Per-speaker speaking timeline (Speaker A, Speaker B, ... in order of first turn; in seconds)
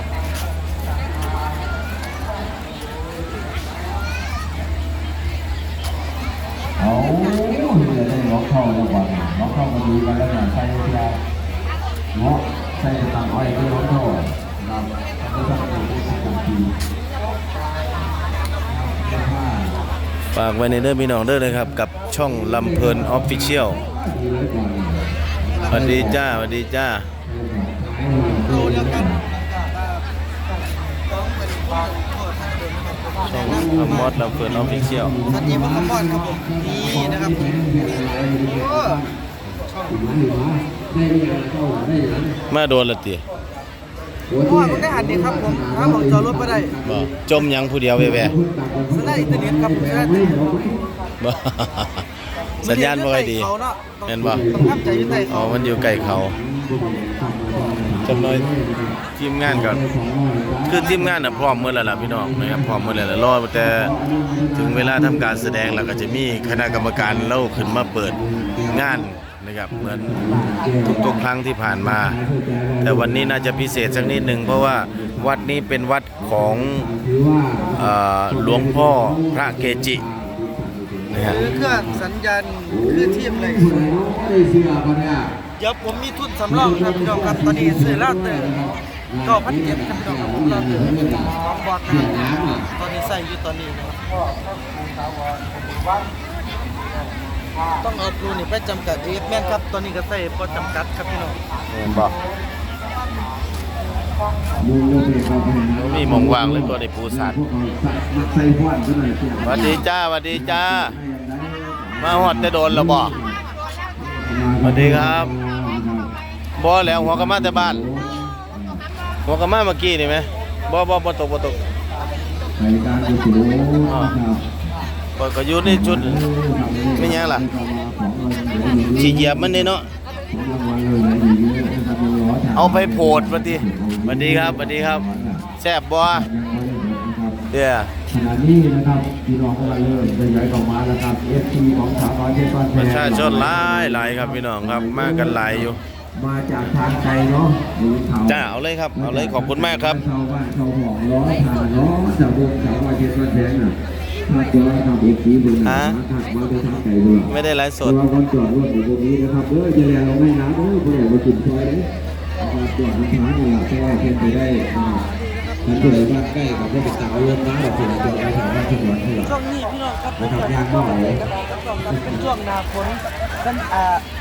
Speaker A: 6.8-11.2, 12.1-16.7, 18.7-19.7, 21.4-26.3, 27.2-29.2, 33.4-39.1, 39.9-42.4, 44.3-47.1, 47.9-50.8, 54.2-69.0, 69.7-82.0, 82.7-85.3, 86.5-91.3, 91.9-92.7, 101.8-102.1, 104.6-113.4, 114.0-116.1, 116.8-118.8, 122.6-124.4, 125.6-129.8, 130.3-135.4, 136.1-137.4, 138.1-153.8, 154.3-161.9, 162.4-165.1, 165.7-169.4, 170.2-171.2, 171.9-172.2
Speaker B: 20.3-23.8, 25.7-27.1, 33.3-35.1, 42.5-43.2, 46.9-48.4, 51.2-52.0, 52.6-53.5, 54.1-54.4, 55.3-56.4, 58.0-58.5, 59.2-59.8, 60.7-63.9, 64.6-68.2, 68.7-72.2, 72.8-76.8, 77.8-80.0, 81.1-81.4, 101.7-102.1, 105.7-107.4, 109.4-111.0, 112.0-113.1, 114.6-115.3, 116.6-117.8, 119.2-121.6, 123.9-124.1, 125.2-126.2, 127.0-127.5, 128.9-129.9, 132.6-136.3, 137.5-137.9, 142.7-145.8, 148.3-150.0, 155.7-156.0, 157.2-158.0
Speaker C: 28.5-30.0, 31.2-34.1, 35.3-37.6, 38.5-39.0, 39.7-40.0, 44.4-46.7, 48.9-50.3, 52.6-55.4, 81.2-83.8, 85.6-88.7, 89.2-94.1, 97.8-101.4, 165.1-166.0, 169.2-174.0